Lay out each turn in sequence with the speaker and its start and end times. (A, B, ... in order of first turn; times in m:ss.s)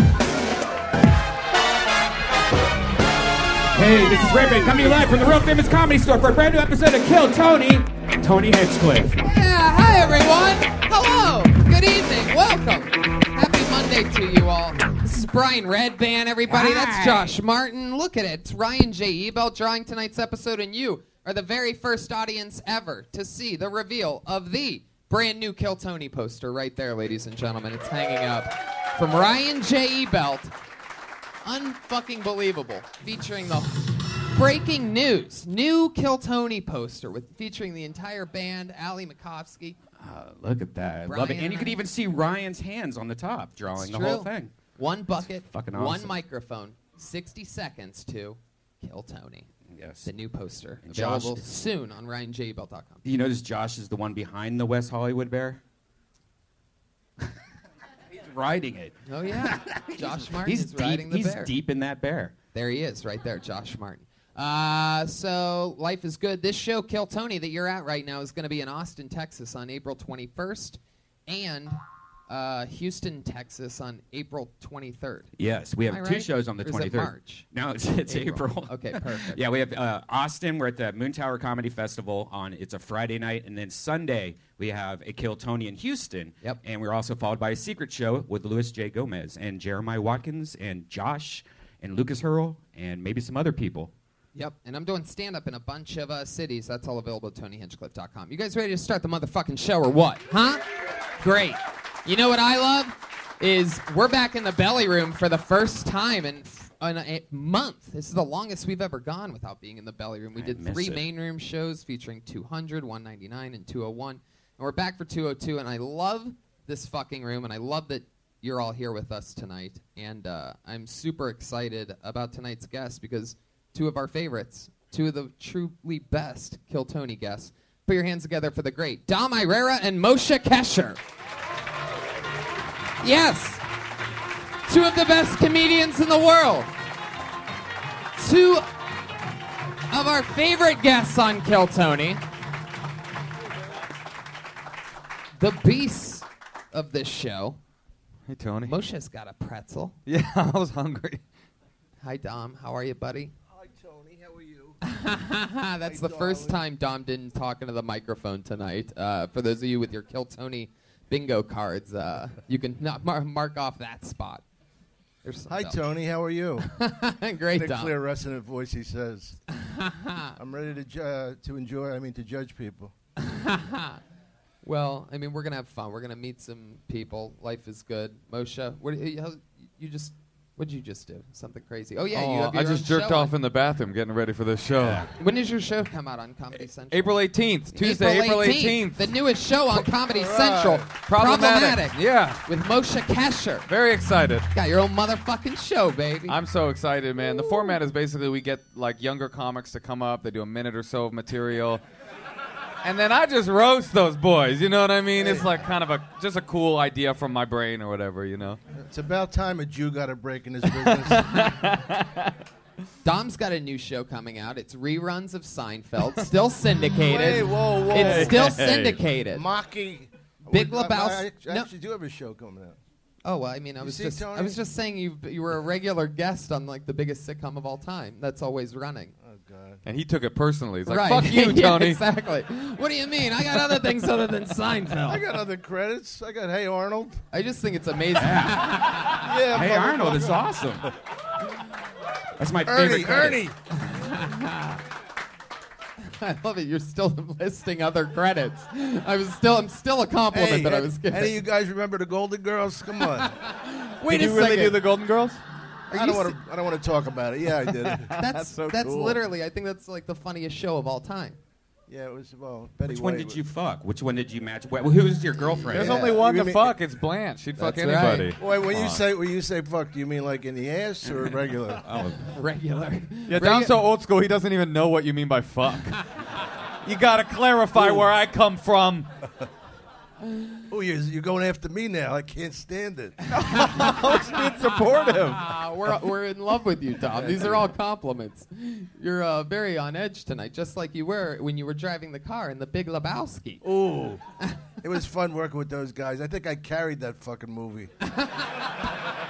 0:03.7-0:09.2 A
0:09.2-0:30.5 B
0:16.5-0:17.4 A
0:31.4-0:39.8 B
0:40.0-0:44.5 A
0:41.0-0:41.8 B
0:43.8-0:49.5 B
0:45.5-0:46.2 A
0:49.7-0:50.1 A
0:50.0-0:53.0 B
0:50.8-0:51.5 A
0:53.0-0:55.6 A
0:58.1-1:02.3 A
0:59.1-1:01.5 B
1:02.5-1:11.8 B
1:12.3-1:15.3 B
1:15.4-1:33.9 A
1:15.9-1:17.4 B
1:18.1-1:19.4 B
1:34.3-1:40.6 B
1:41.2-2:11.0 B
1:50.4-1:51.0 A
2:13.0-2:13.6 B
2:14.7-2:16.7 B
2:18.2-2:18.7 B
2:19.9-2:22.2 B
2:25.4-2:27.6 B
2:28.3-2:28.8 C
2:28.6-2:30.0 B
2:30.1-2:31.2 C
2:32.0-2:33.3 B
2:33.5-2:34.8 D
2:34.8-2:44.4 B
2:35.8-2:36.6 D
2:45.2-2:45.8 B
2:45.5-2:46.7 D
2:46.7-2:47.9 B
2:47.5-2:49.4 D
2:49.5-2:50.3 B
2:50.4-2:52.9 D
2:53.2-2:54.0 B
2:54.6-3:03.3 B
3:02.1-3:05.1 C
3:04.8-3:05.1 A
3:05.2-3:07.1 B
3:06.9-3:09.1 C
3:07.7-3:13.7 B
3:09.7-3:10.9 D
3:11.1-3:12.4 C
3:13.7-3:14.5 C
3:14.5-3:16.4 B
3:16.3-3:21.8 C
3:22.8-3:28.6 C
3:25.2-3:25.5 D
3:28.8-3:31.7 D
3:30.7-3:32.3 C
3:33.0-3:39.4 B
3:37.0-3:38.6 D
3:37.8-3:39.0 C
3:39.3-3:42.8 D
3:40.5-3:41.7 B
3:43.2-3:49.1 B
3:43.8-3:44.6 D
3:49.2-3:49.8 D
3:49.8-3:52.0 C
3:50.9-3:55.2 B
3:55.1-3:57.2 D
3:57.3-3:59.2 B
3:58.2-4:00.9 A
3:59.2-4:00.4 D
4:02.4-4:03.5 A
4:02.7-4:03.5 D
4:03.9-4:04.8 B
4:06.0-4:11.4 B
4:10.3-4:13.4 D
4:13.4-4:14.8 B
4:14.0-4:15.4 C
4:15.9-4:16.4 B
4:15.9-4:18.1 D
4:17.6-4:19.1 C
4:18.2-4:21.4 B
4:21.9-4:23.4 D
4:22.9-4:26.1 A
4:25.6-4:26.8 D
4:25.7-4:29.0 C
4:27.6-4:28.3 B
4:28.4-4:31.8 D
4:31.8-4:32.3 C
4:32.3-4:33.8 B
4:33.3-4:36.0 C
4:36.8-4:39.1 C
4:40.7-4:43.2 D
4:43.3-4:45.5 C
4:43.5-4:44.3 B
4:45.0-4:53.6 B
4:47.1-4:47.7 D
4:53.6-4:54.2 D
4:54.8-4:57.9 D
4:58.0-4:58.7 B